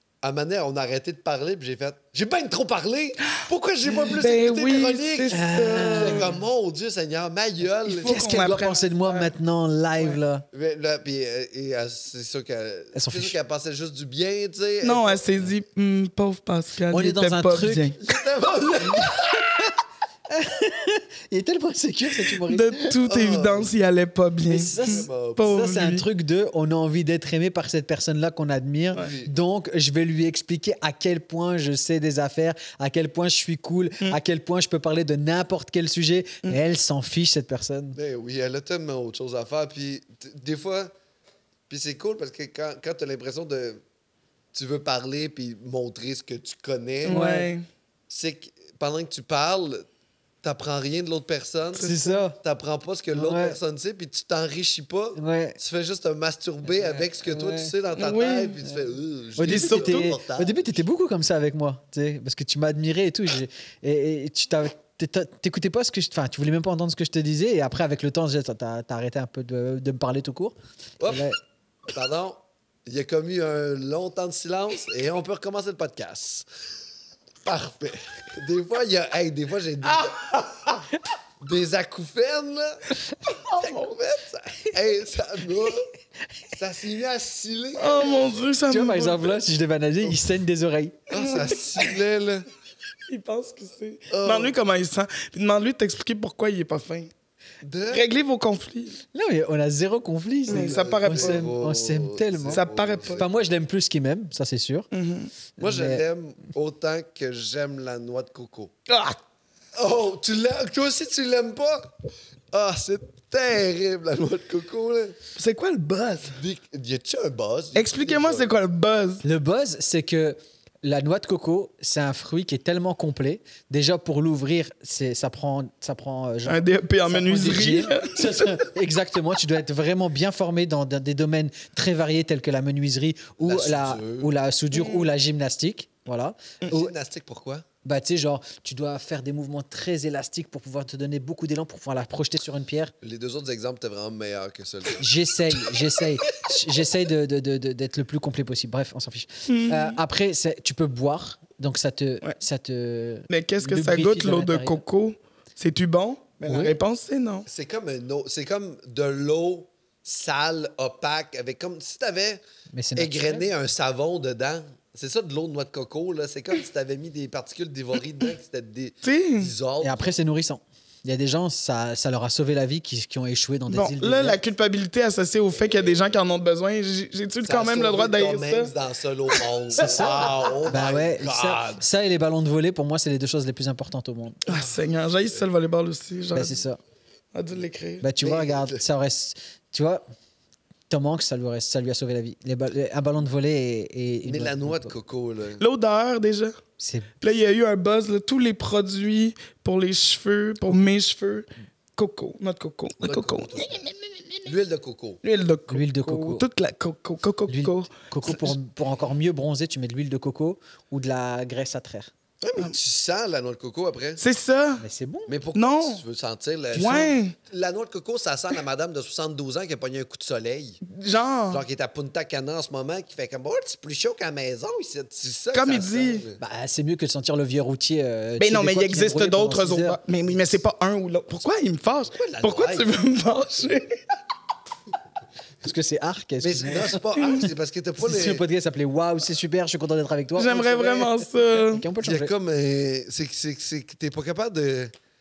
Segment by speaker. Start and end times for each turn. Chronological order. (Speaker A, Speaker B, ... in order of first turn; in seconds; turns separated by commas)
Speaker A: 0.2-8.1, Speaker B: 4.1-6.3, Speaker C: 5.3-6.3, Speaker B: 7.8-9.3, Speaker C: 8.0-10.4, Speaker A: 10.5-15.2, Speaker C: 12.9-13.3, Speaker B: 14.8-17.9, Speaker C: 16.9-18.0, Speaker A: 18.0-19.5, Speaker C: 19.0-19.7, Speaker C: 20.3-22.9, Speaker B: 22.4-26.1, Speaker A: 23.0-23.7, Speaker C: 24.5-38.0, Speaker A: 24.8-25.6, Speaker A: 28.9-29.3, Speaker A: 37.9-40.9, Speaker A: 41.7-43.8, Speaker A: 44.5-47.2, Speaker B: 47.0-47.6, Speaker C: 47.1-47.5, Speaker A: 48.1-49.9, Speaker A: 50.4-60.8, Speaker B: 51.8-52.2, Speaker C: 51.8-52.4, Speaker C: 53.1-53.6, Speaker C: 55.1-55.6, Speaker C: 56.8-57.7, Speaker B: 57.9-58.5, Speaker C: 59.4-71.4, Speaker B: 59.4-60.1, Speaker A: 71.0-71.3, Speaker A: 71.9-76.5, Speaker A: 77.4-80.7, Speaker A: 81.4-82.8, Speaker B: 83.4-83.9, Speaker A: 83.5-85.9, Speaker A: 86.5-88.4, Speaker B: 87.8-89.4, Speaker C: 88.7-91.0, Speaker A: 91.1-92.5, Speaker B: 91.1-91.8, Speaker B: 93.1-97.1, Speaker A: 94.1-94.5, Speaker A: 97.6-98.1, Speaker B: 97.9-99.0, Speaker C: 99.1-102.6, Speaker B: 100.5-101.5, Speaker A: 100.5-103.3, Speaker B: 102.5-103.2, Speaker C: 103.2-104.9, Speaker B: 104.9-105.3, Speaker C: 105.6-106.0, Speaker A: 105.6-108.7, Speaker B: 108.9-109.2, Speaker A: 109.7-111.9, Speaker A: 112.5-115.2, Speaker B: 115.3-116.4, Speaker A: 116.3-118.5, Speaker B: 117.7-119.2, Speaker C: 119.2-136.9, Speaker B: 126.5-128.5, Speaker A: 133.4-134.3, Speaker B: 134.7-135.1, Speaker A: 136.7-137.7, Speaker C: 137.8-142.9, Speaker A: 143.0-145.0, Speaker C: 145.0-154.8, Speaker B: 149.5-150.0, Speaker B: 153.3-157.5, Speaker C: 156.4-156.7, Speaker A: 157.5-162.4, Speaker C: 162.7-163.4, Speaker A: 162.9-170.1, Speaker B: 169.0-169.5, Speaker C: 169.8-174.4, Speaker B: 173.7-178.7, Speaker A: 175.5-176.2, Speaker A: 177.4-181.8, Speaker C: 179.8-184.4, Speaker B: 179.9-180.5, Speaker B: 184.5-186.6, Speaker A: 184.5-184.8, Speaker C: 186.3-186.8, Speaker B: 187.3-188.0, Speaker C: 188.0-190.0, Speaker A: 188.2-188.8, Speaker C: 190.9-194.9, Speaker A: 194.2-195.6, Speaker B: 195.6-196.6, Speaker C: 196.8-197.1, Speaker B: 197.2-204.5, Speaker A: 203.0-203.8, Speaker A: 204.4-205.2, Speaker B: 205.2-208.6, Speaker C: 205.7-206.4, Speaker C: 207.5-212.1, Speaker A: 212.4-214.2, Speaker B: 214.2-214.8, Speaker C: 214.8-215.3, Speaker A: 215.3-220.8, Speaker B: 215.5-216.0, Speaker B: 216.7-217.3, Speaker C: 216.8-217.1, Speaker B: 220.8-221.6, Speaker A: 221.5-226.4, Speaker B: 225.5-226.2, Speaker C: 226.4-230.0, Speaker B: 228.4-233.9, Speaker A: 232.1-232.9, Speaker C: 235.6-237.0, Speaker A: 236.4-238.4, Speaker B: 237.2-237.4, Speaker C: 238.0-242.3, Speaker B: 240.4-241.8, Speaker A: 242.0-244.9